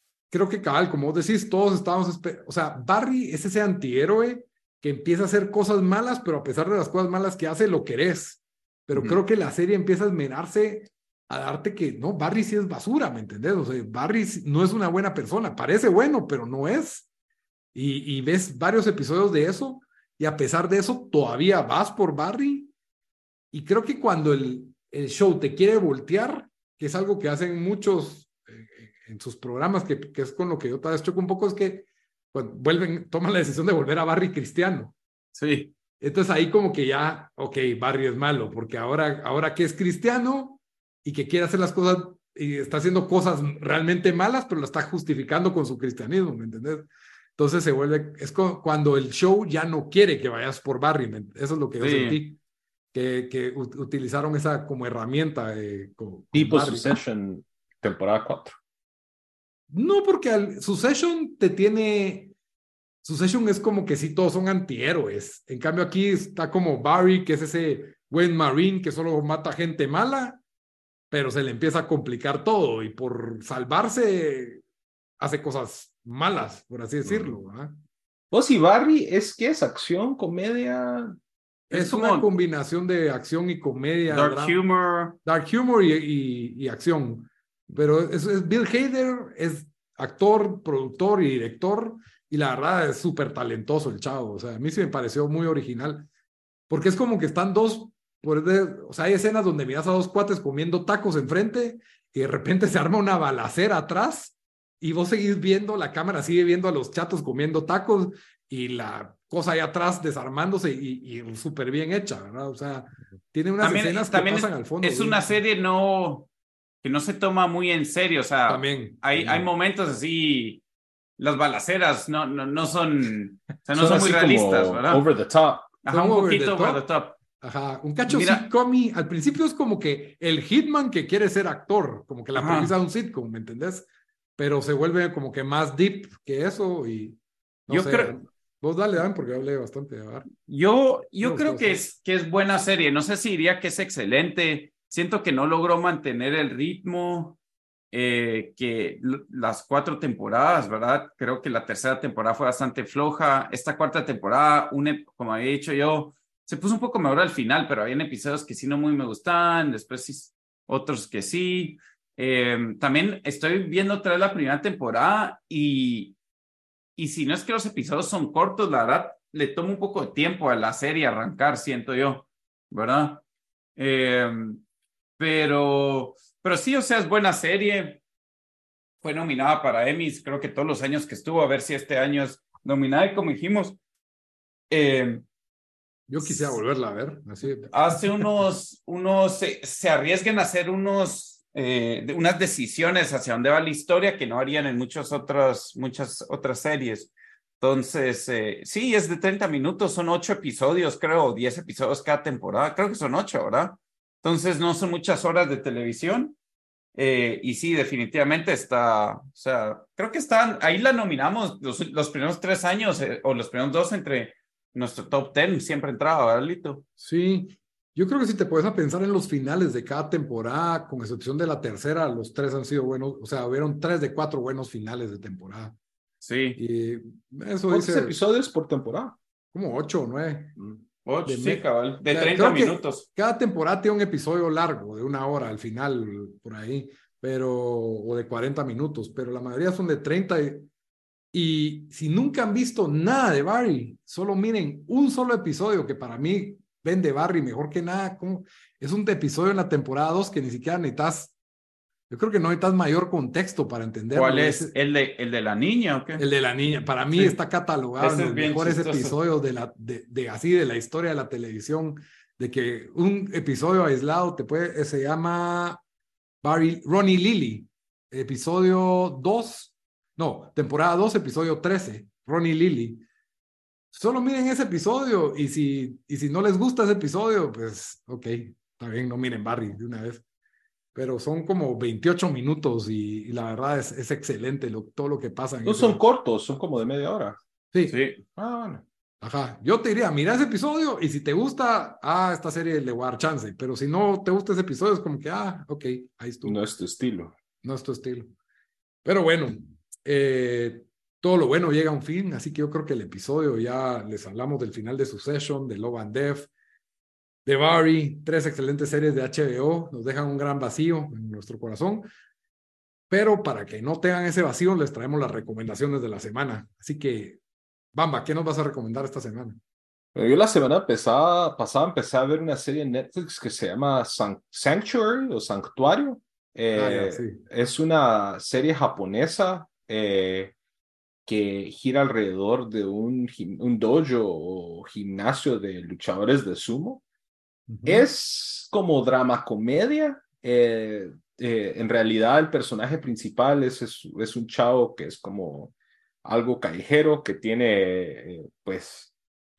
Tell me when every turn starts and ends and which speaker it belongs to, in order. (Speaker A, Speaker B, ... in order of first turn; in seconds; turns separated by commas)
Speaker A: 0.3-17.1, Speaker B: 8.9-9.2, Speaker A: 17.7-22.7, Speaker A: 23.5-35.0, Speaker B: 35.3-35.7, Speaker A: 36.0-52.4, Speaker B: 51.8-52.2, Speaker A: 52.9-56.9, Speaker C: 56.3-58.6, Speaker A: 59.7-62.3, Speaker A: 63.0-70.4, Speaker A: 71.1-74.6, Speaker A: 75.2-77.8, Speaker C: 77.1-77.3, Speaker C: 78.3-81.2, Speaker A: 81.7-84.6, Speaker B: 81.7-82.3, Speaker B: 84.1-85.2, Speaker A: 85.2-96.1, Speaker A: 96.7-115.3, Speaker B: 113.6-116.3, Speaker B: 116.8-120.6, Speaker A: 118.5-119.5, Speaker B: 121.2-125.0, Speaker C: 123.7-125.7, Speaker B: 125.8-127.2, Speaker A: 125.9-126.8, Speaker A: 127.4-137.2, Speaker B: 128.1-128.5, Speaker B: 132.4-132.7, Speaker A: 137.7-140.3, Speaker B: 137.7-138.1, Speaker B: 140.4-147.4, Speaker A: 141.2-141.9, Speaker B: 147.9-166.2, Speaker B: 167.0-173.2, Speaker B: 173.8-174.6, Speaker B: 175.2-178.0, Speaker B: 179.0-183.8, Speaker B: 184.7-185.2, Speaker A: 186.1-188.2, Speaker B: 186.2-186.6, Speaker B: 187.7-206.4, Speaker B: 206.9-216.8, Speaker A: 217.0-225.8, Speaker B: 226.2-226.6, Speaker A: 226.6-228.2, Speaker C: 227.7-229.2, Speaker A: 229.5-230.6, Speaker B: 231.1-233.1, Speaker A: 231.3-240.7, Speaker A: 241.3-251.3, Speaker A: 252.1-254.7, Speaker B: 254.1-256.2, Speaker A: 256.2-265.8, Speaker B: 258.0-259.1, Speaker A: 266.4-273.0, Speaker A: 273.9-280.2, Speaker A: 280.9-286.0, Speaker C: 285.6-287.4, Speaker B: 287.9-288.2, Speaker C: 288.4-288.8, Speaker A: 289.2-296.6, Speaker C: 296.4-297.3, Speaker A: 297.6-298.3, Speaker A: 299.0-306.5, Speaker A: 307.4-312.1, Speaker A: 313.1-317.4, Speaker A: 317.9-319.6, Speaker C: 320.1-330.5, Speaker A: 326.7-327.4, Speaker C: 331.3-337.0, Speaker A: 337.7-338.1, Speaker C: 337.9-345.7, Speaker C: 346.2-349.1